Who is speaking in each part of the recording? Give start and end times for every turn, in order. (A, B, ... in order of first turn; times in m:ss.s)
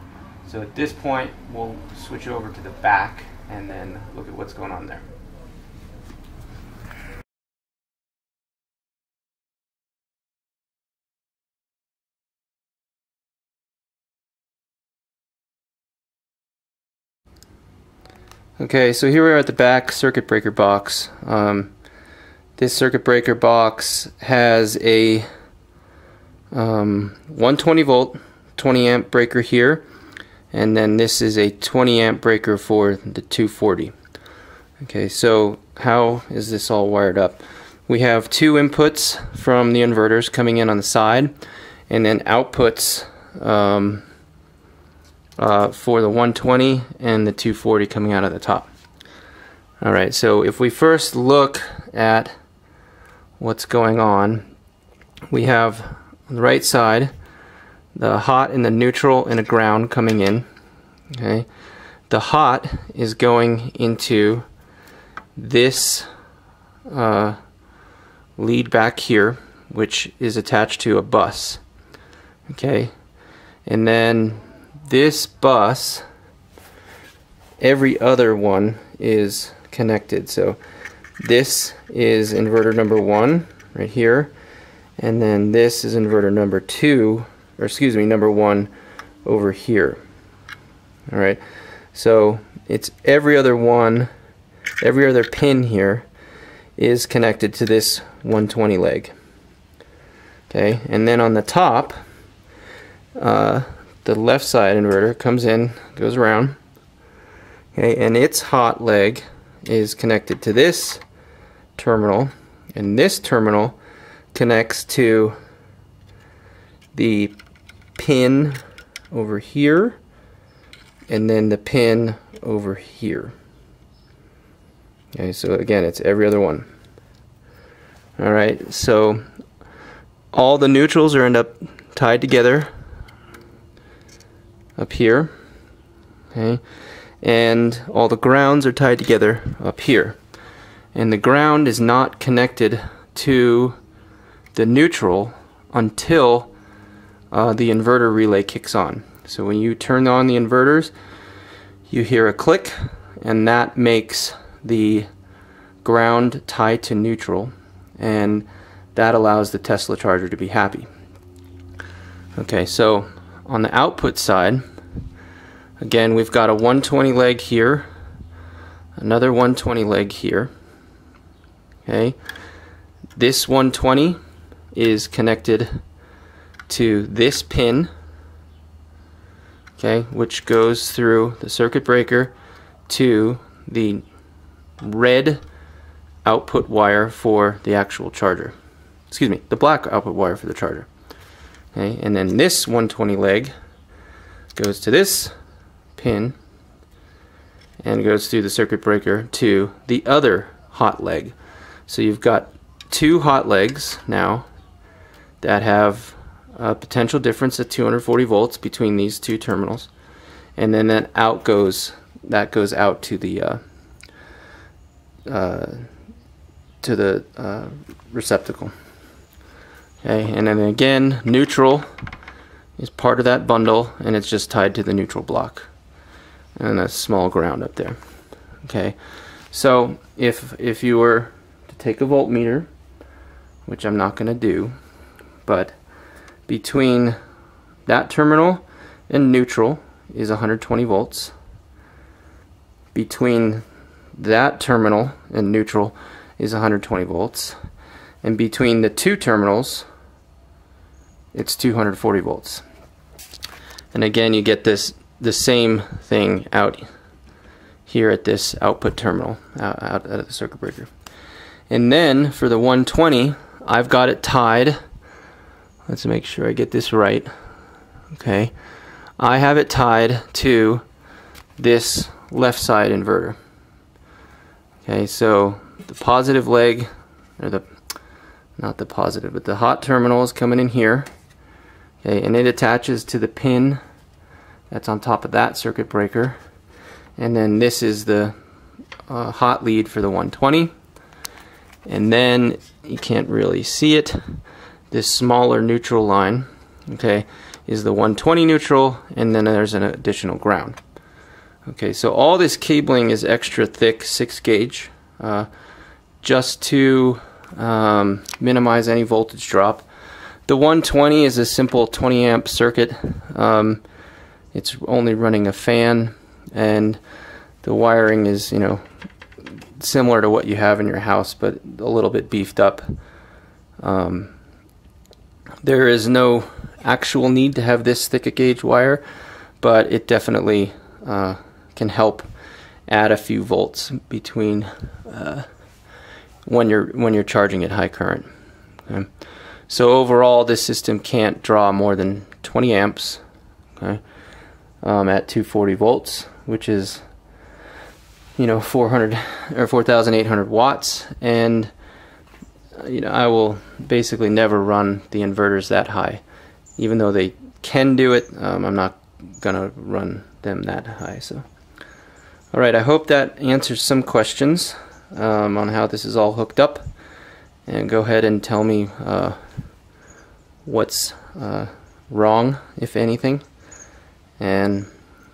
0:00.4-0:05.1 A
0:18.6-0:21.7 A
0:22.6-0:25.3 A
0:26.5-0:29.8 A
0:30.5-0:33.9 A
0:34.8-0:41.3 A
0:41.9-0:44.0 A
0:45.4-0:48.7 A
0:49.8-0:52.3 A
0:53.4-0:54.5 A
0:55.3-0:57.1 A
0:58.0-1:00.5 A
1:01.1-1:01.5 A
1:02.1-1:04.5 A
1:05.4-1:06.1 A
1:06.9-1:07.4 A
1:08.4-1:11.6 A
1:12.5-1:12.9 A
1:13.7-1:16.0 A
1:17.6-1:20.6 A
1:21.2-1:24.3 A
1:25.0-1:28.7 A
1:29.2-1:30.0 A
1:31.1-1:31.4 A
1:31.9-1:34.1 A
1:34.8-1:36.1 A
1:36.8-1:39.1 A
1:40.5-1:42.0 A
1:43.2-1:46.6 A
1:47.8-1:51.0 A
1:51.8-1:53.8 A
1:54.3-1:55.4 A
1:56.9-1:57.3 A
1:58.0-2:00.0 A
2:01.1-2:03.3 A
2:05.1-2:06.7 A
2:08.2-2:09.2 A
2:10.3-2:12.7 A
2:14.8-2:15.3 A
2:16.3-2:16.6 A
2:17.2-2:20.2 A
2:20.9-2:23.8 A
2:24.5-2:26.5 A
2:27.3-2:30.9 A
2:31.9-2:35.1 A
2:35.8-2:40.9 A
2:42.4-2:44.6 A
2:45.8-2:47.9 A
2:49.0-2:50.5 A
2:51.8-2:52.2 A
2:53.2-2:54.2 A
2:54.7-2:55.8 A
2:56.7-2:57.9 A
2:59.8-3:02.3 A
3:02.9-3:04.0 A
3:04.8-3:05.4 A
3:06.2-3:08.5 A
3:09.1-3:10.9 A
3:11.7-3:13.5 A
3:14.6-3:15.3 A
3:16.0-3:16.4 A
3:17.8-3:21.4 A
3:21.9-3:24.5 A
3:25.4-3:29.9 A
3:30.6-3:33.6 A
3:35.3-3:35.9 A
3:36.8-3:38.7 A
3:40.0-3:41.9 A
3:42.8-3:45.7 A
3:46.6-3:48.0 A
3:48.6-3:49.0 A
3:49.5-3:52.7 A
3:53.7-3:54.7 A
3:55.5-3:55.8 A
3:56.5-3:57.2 A
3:57.9-4:01.3 A
4:02.9-4:03.6 A
4:04.2-4:07.6 A
4:08.2-4:09.9 A
4:11.3-4:12.6 A
4:13.9-4:16.8 A
4:17.9-4:20.9 A
4:21.7-4:24.8 A
4:25.9-4:27.3 A
4:28.1-4:28.5 A
4:29.2-4:30.8 A
4:31.6-4:33.4 A
4:34.8-4:37.7 A
4:38.6-4:41.1 A
4:42.0-4:43.8 A
4:44.7-4:46.4 A
4:47.2-4:48.4 A
4:49.1-4:50.7 A
4:51.9-4:54.2 A
4:54.9-5:00.8 A
5:01.7-5:05.5 A
5:06.2-5:09.8 A
5:10.5-5:13.8 A
5:14.5-5:17.0 A
5:17.6-5:18.8 A
5:19.8-5:22.9 A
5:23.8-5:24.3 A
5:25.6-5:29.0 A
5:29.6-5:32.3 A
5:32.9-5:35.5 A
5:36.5-5:38.3 A
5:39.7-5:43.2 A
5:44.8-5:47.0 A
5:48.4-5:51.7 A
5:52.8-5:56.2 A
5:56.8-6:01.4 A
6:02.5-6:06.8 A
6:07.7-6:09.4 A
6:10.7-6:13.4 A
6:14.4-6:14.9 A